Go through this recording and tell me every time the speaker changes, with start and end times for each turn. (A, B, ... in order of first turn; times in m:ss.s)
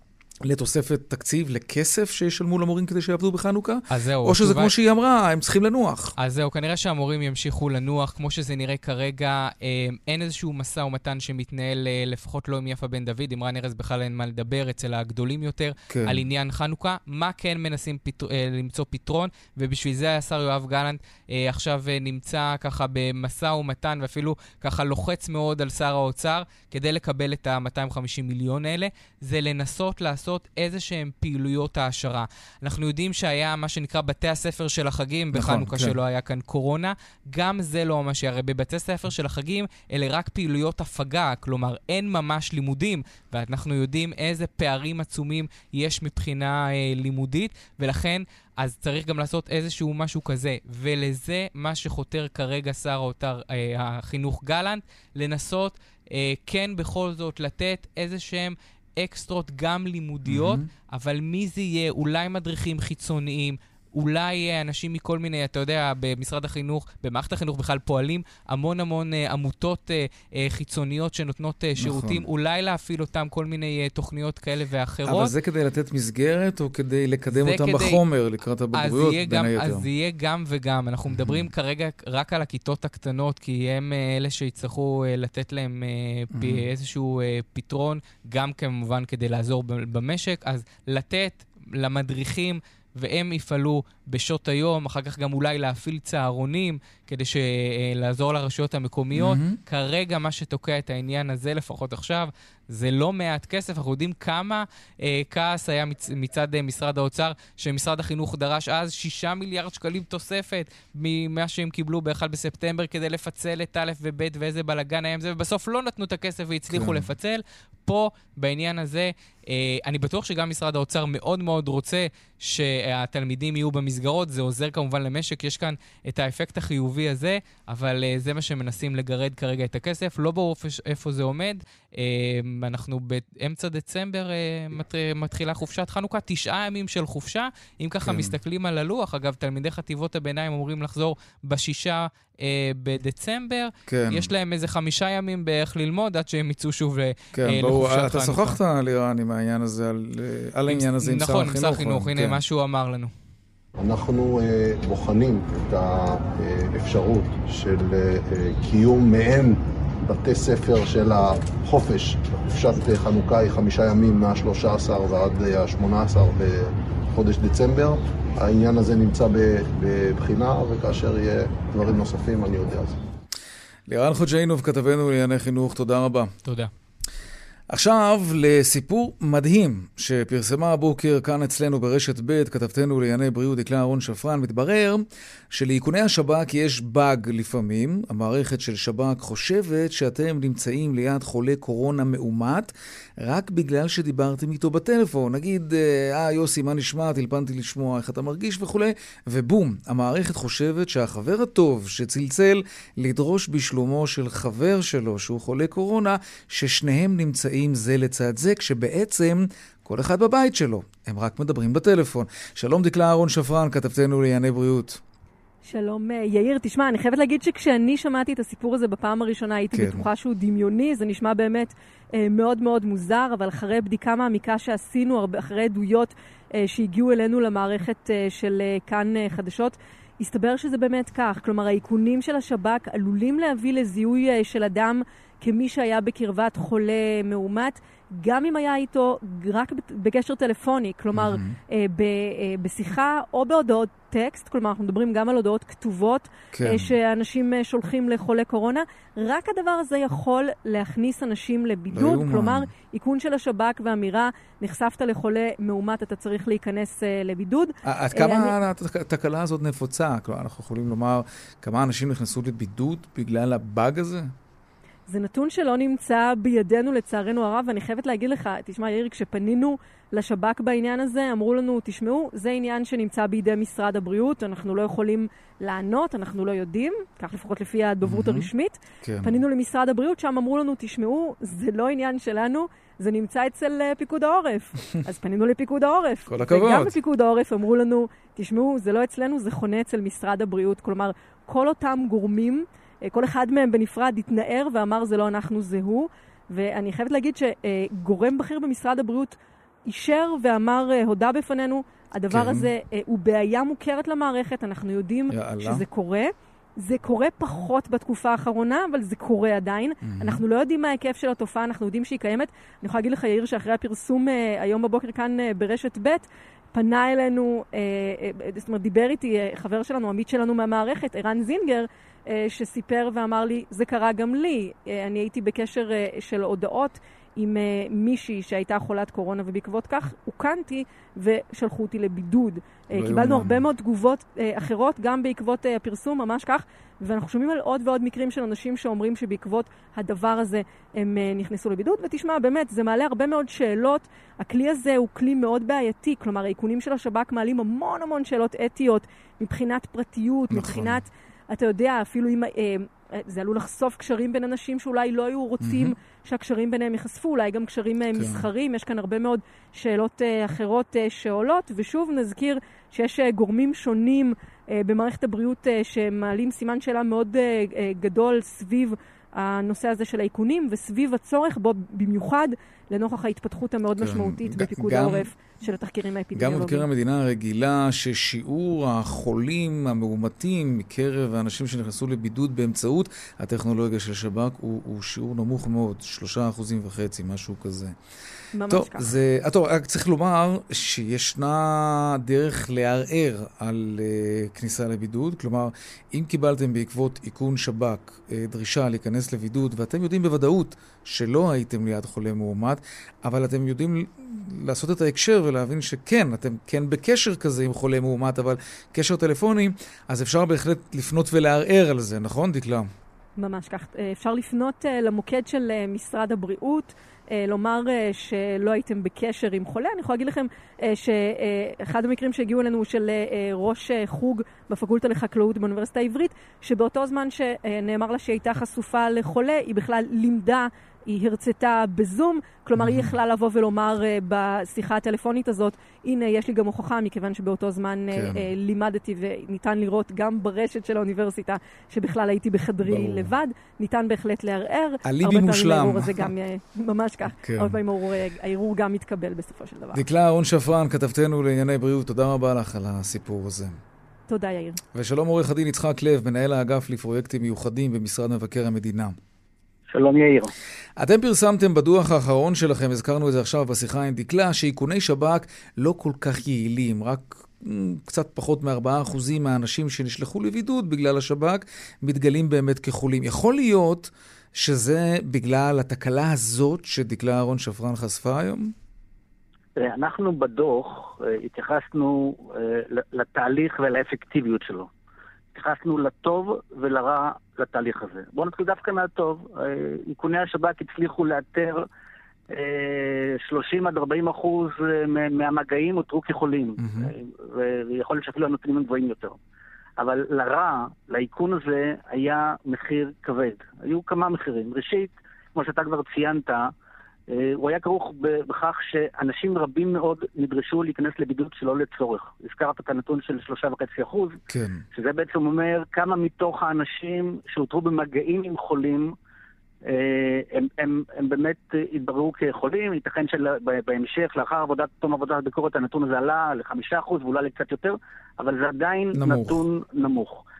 0:00.4-0:06.1 A
0:03.9-0:04.7 B
0:06.2-1:15.3 B
0:15.9-0:16.2 A
0:35.3-0:36.0 A
1:00.2-1:00.6 A
1:11.8-1:12.2 A
1:15.0-1:19.9 A
1:17.3-1:18.0 B
1:18.8-2:28.6 B
1:21.1-1:21.5 A
1:26.3-1:26.7 A
1:39.1-1:39.6 A
1:56.7-1:57.1 A
2:18.0-2:18.4 A
2:23.9-2:24.3 A
2:27.3-2:32.4 A
2:30.7-2:33.1 B
2:33.8-2:53.0 C
2:53.9-2:56.3 A
2:56.4-2:56.7 B
2:57.7-3:35.0 A
3:35.6-4:18.6 D
3:39.7-3:40.1 A
4:01.1-4:01.6 A
4:06.5-4:06.9 A
4:11.9-4:12.7 A
4:17.8-4:24.3 A
4:25.1-6:16.9 D
4:38.0-4:38.5 A
4:39.0-4:39.4 A
4:46.3-4:46.9 A
5:02.3-5:02.7 A
5:05.3-5:05.8 A
5:10.0-5:10.4 A
5:32.9-5:33.6 A
5:50.5-5:51.0 A
5:55.6-5:55.9 A
5:58.1-5:58.5 A
6:14.0-6:15.3 A
6:16.4-6:28.0 A
6:28.6-6:29.1 D
6:28.7-6:52.9 A
6:53.4-7:30.0 D
7:12.8-7:13.1 A
7:18.1-7:18.4 A
7:22.8-7:23.3 A
7:25.0-7:26.3 A
7:27.4-7:27.8 A
7:29.9-7:33.8 A
7:34.3-7:34.8 D
7:34.9-7:39.2 A
7:39.9-7:40.5 E
7:41.0-7:58.7 A
7:59.8-8:04.9 E
8:05.5-8:11.8 E
8:12.5-8:19.4 E
8:16.8-8:17.1 A
8:20.0-8:26.7 E
8:27.3-8:34.4 E
8:34.5-8:34.8 A
8:34.9-8:39.1 E
8:39.8-8:50.4 E
8:49.1-8:49.6 A